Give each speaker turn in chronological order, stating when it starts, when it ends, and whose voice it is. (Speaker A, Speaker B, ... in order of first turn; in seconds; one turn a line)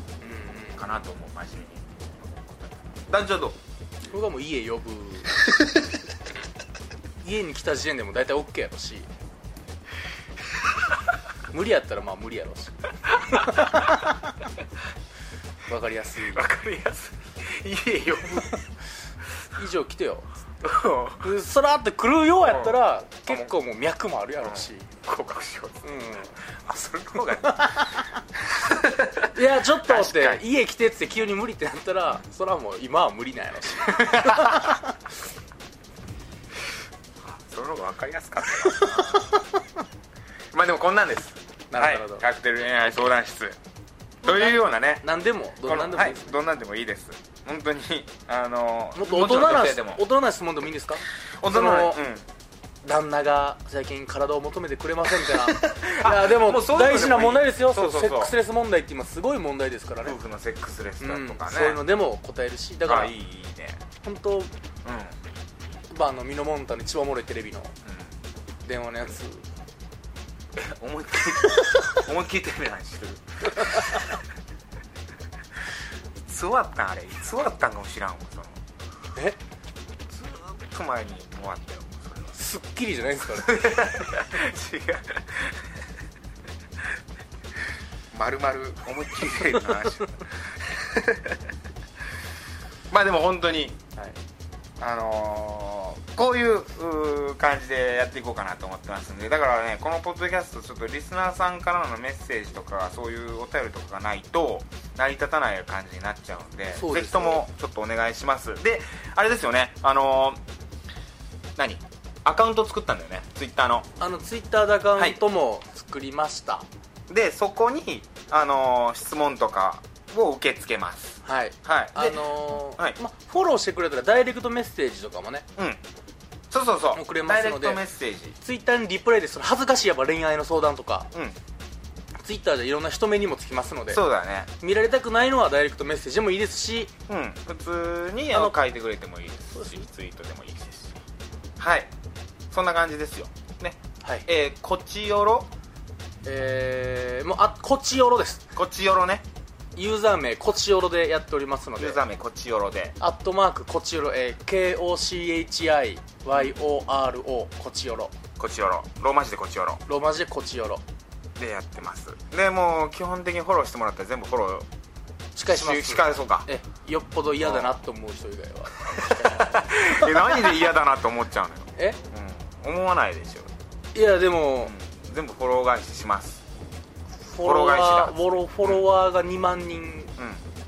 Speaker A: 0.2-0.9
Speaker B: 0.7-3.6
Speaker A: 4.0-5.4
Speaker A: 7.2-9.1
Speaker A: 11.5-14.2
Speaker B: 13.1-14.0
Speaker A: 15.7-16.5
Speaker B: 16.3-18.6
Speaker A: 19.5-20.3
Speaker B: 20.6-21.3
Speaker A: 21.2-24.9
Speaker B: 22.4-23.5
Speaker B: 24.4-30.4
Speaker A: 25.8-26.4
Speaker A: 27.4-28.0
Speaker A: 29.3-34.9
Speaker B: 33.8-34.8
Speaker B: 37.3-39.4
Speaker A: 38.6-39.5
Speaker B: 40.5-43.6
Speaker A: 41.7-42.2
Speaker B: 44.2-45.1
Speaker A: 44.2-46.4
Speaker B: 45.6-50.0
Speaker A: 49.0-52.0
Speaker B: 51.4-52.2
Speaker A: 52.8-60.2
Speaker B: 55.2-58.4
Speaker B: 60.0-61.8
Speaker A: 61.0-63.1
Speaker B: 62.9-63.8
Speaker A: 64.0-64.5
Speaker B: 64.8-65.2
Speaker A: 65.9-67.7
Speaker B: 67.8-68.1
Speaker A: 68.6-69.5
Speaker B: 70.5-74.2
Speaker B: 76.2-78.6
Speaker B: 80.1-82.4
Speaker A: 82.3-84.1
Speaker B: 83.3-85.6
Speaker B: 88.1-91.4
Speaker A: 89.4-89.9
Speaker B: 92.9-93.8
Speaker B: 94.8-110.4
Speaker A: 106.7-107.4
Speaker B: 111.6-113.9
Speaker A: 114.0-116.7
Speaker B: 117.1-123.0
Speaker A: 121.2-125.5
Speaker B: 126.5-128.4
Speaker A: 126.9-127.8
Speaker A: 128.4-131.1
Speaker A: 132.2-134.0
Speaker B: 133.9-134.5
Speaker A: 134.6-136.9
Speaker B: 137.1-141.0
Speaker A: 138.3-138.6
Speaker A: 139.5-139.9
Speaker B: 141.6-141.9
Speaker B: 142.5-145.5
Speaker A: 146.2-148.5
Speaker B: 148.5-149.2
Speaker A: 149.8-152.0
Speaker B: 151.8-152.9
Speaker A: 153.0-158.1
Speaker B: 158.4-159.8
Speaker A: 159.9-160.8
Speaker B: 161.3-164.7
Speaker A: 165.3-170.7
Speaker B: 165.5-166.5
Speaker B: 167.4-167.7
Speaker B: 168.8-173.5
Speaker A: 173.9-174.7
Speaker B: 174.6-176.4
Speaker A: 177.2-180.1
Speaker B: 177.4-178.8
Speaker B: 180.2-180.4